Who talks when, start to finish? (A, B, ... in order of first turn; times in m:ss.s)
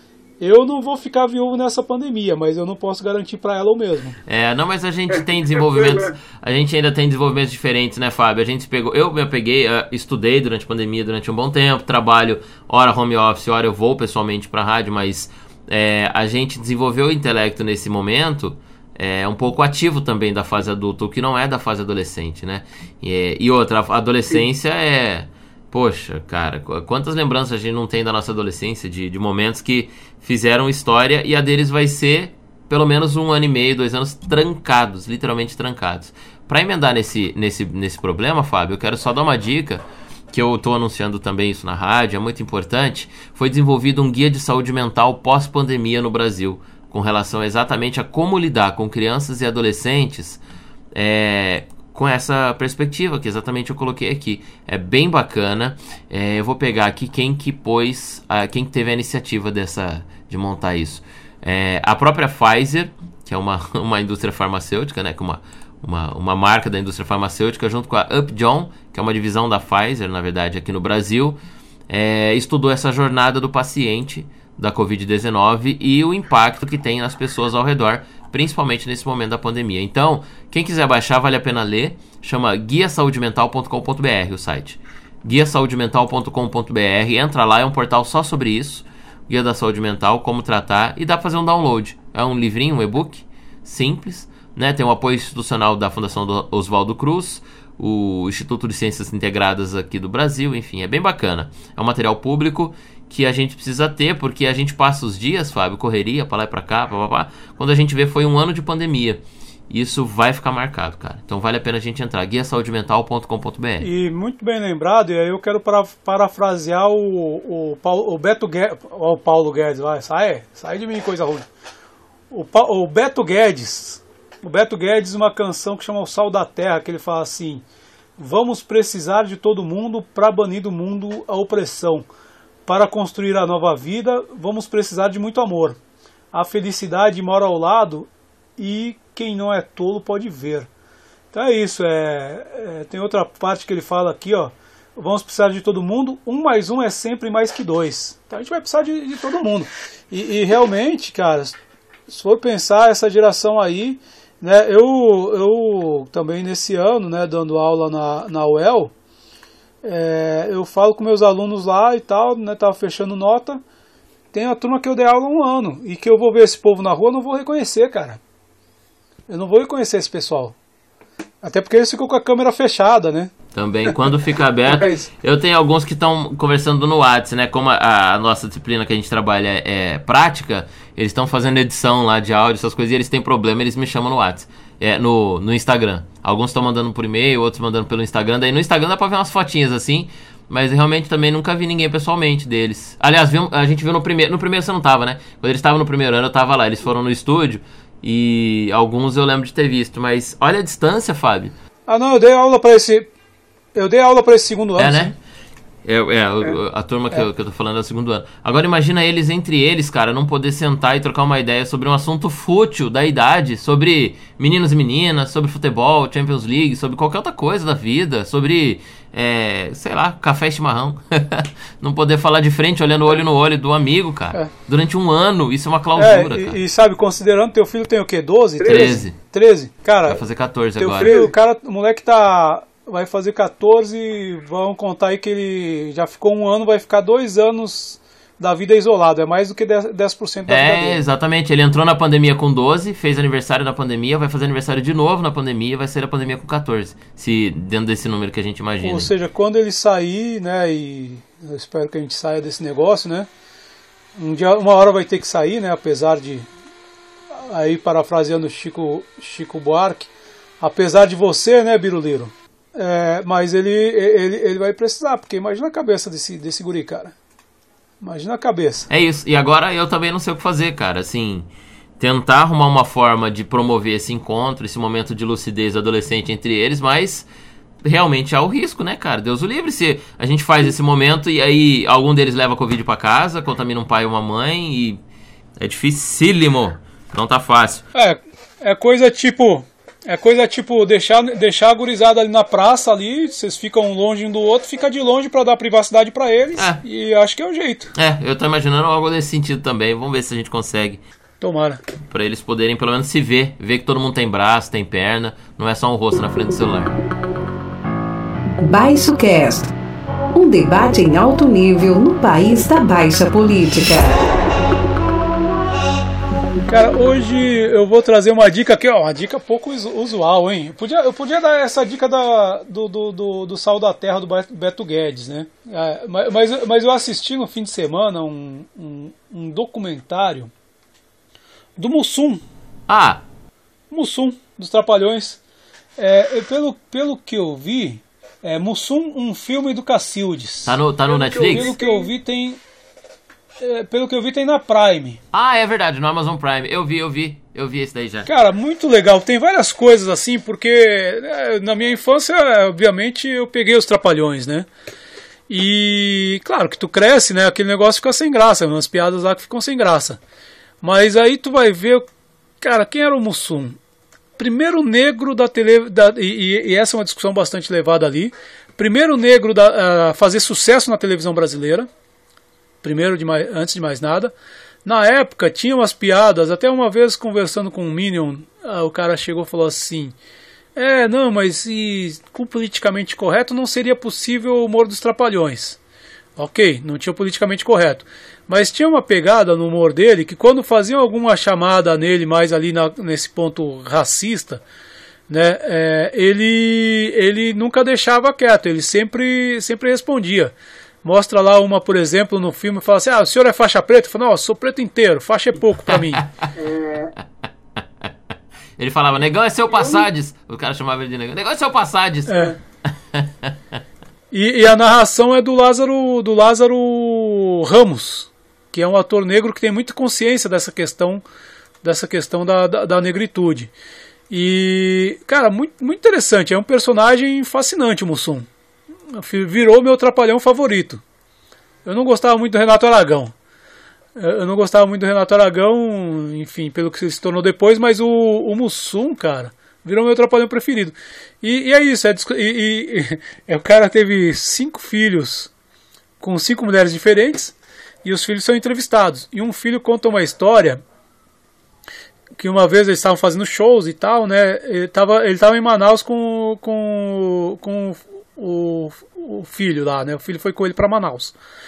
0:00.4-0:04.2 A
0:04.3-0:50.4 B
0:50.9-1:53.9 B
1:53.8-2:01.5 A
2:02.3-2:07.6 A
2:08.2-2:12.1 A
2:12.7-2:15.8 A
2:16.3-2:20.7 A
2:21.3-2:31.6 A
2:32.1-2:38.9 A
2:39.8-2:43.6 A
2:44.3-2:48.2 A
2:49.3-2:50.6 A
2:51.4-2:53.3 A
2:53.5-3:21.6 B
3:21.9-3:23.1 A
3:23.8-3:25.2 A
3:24.8-3:25.2 B
3:25.8-3:46.6 B
3:46.0-3:50.2 A
3:48.6-3:49.2 B
3:50.1-3:51.2 B
3:50.8-4:01.0 A
4:00.5-4:09.1 B
4:08.8-4:13.3 A
4:14.2-4:16.5 A
4:17.3-4:27.2 A
4:28.0-4:28.9 A
4:28.9-4:31.5 B
4:32.0-4:37.3 B
4:37.8-4:45.0 B
4:45.6-4:47.8 B
4:47.9-4:57.9 A
4:56.6-4:56.8 B
4:58.0-5:01.0 B
5:01.4-5:01.8 A
5:02.1-5:07.0 B
5:08.6-5:09.7 C
5:10.3-5:14.2 C
5:16.7-5:30.5 A
5:31.8-5:32.4 A
5:32.9-5:33.2 B
5:33.9-5:35.4 A
5:36.0-5:42.6 A
5:40.7-5:41.8 B
5:43.6-5:45.2 A
5:45.3-5:48.3 B
5:48.3-5:54.7 A
5:55.5-6:00.2 A
6:00.8-6:02.0 A
6:02.6-6:03.8 A
6:04.4-6:11.9 A
6:12.8-6:14.3 A
6:14.8-6:20.2 A
6:20.8-6:25.8 A
6:26.4-6:34.6 A
6:35.3-6:46.3 A
6:48.8-6:53.6 B
6:52.3-6:52.6 A
6:54.3-7:01.2 A
7:01.8-7:03.7 A
7:04.3-7:08.5 A
7:09.1-7:11.0 A
7:11.8-7:13.3 A
7:14.2-7:25.5 A
7:26.2-7:30.8 A
7:32.4-7:41.4 A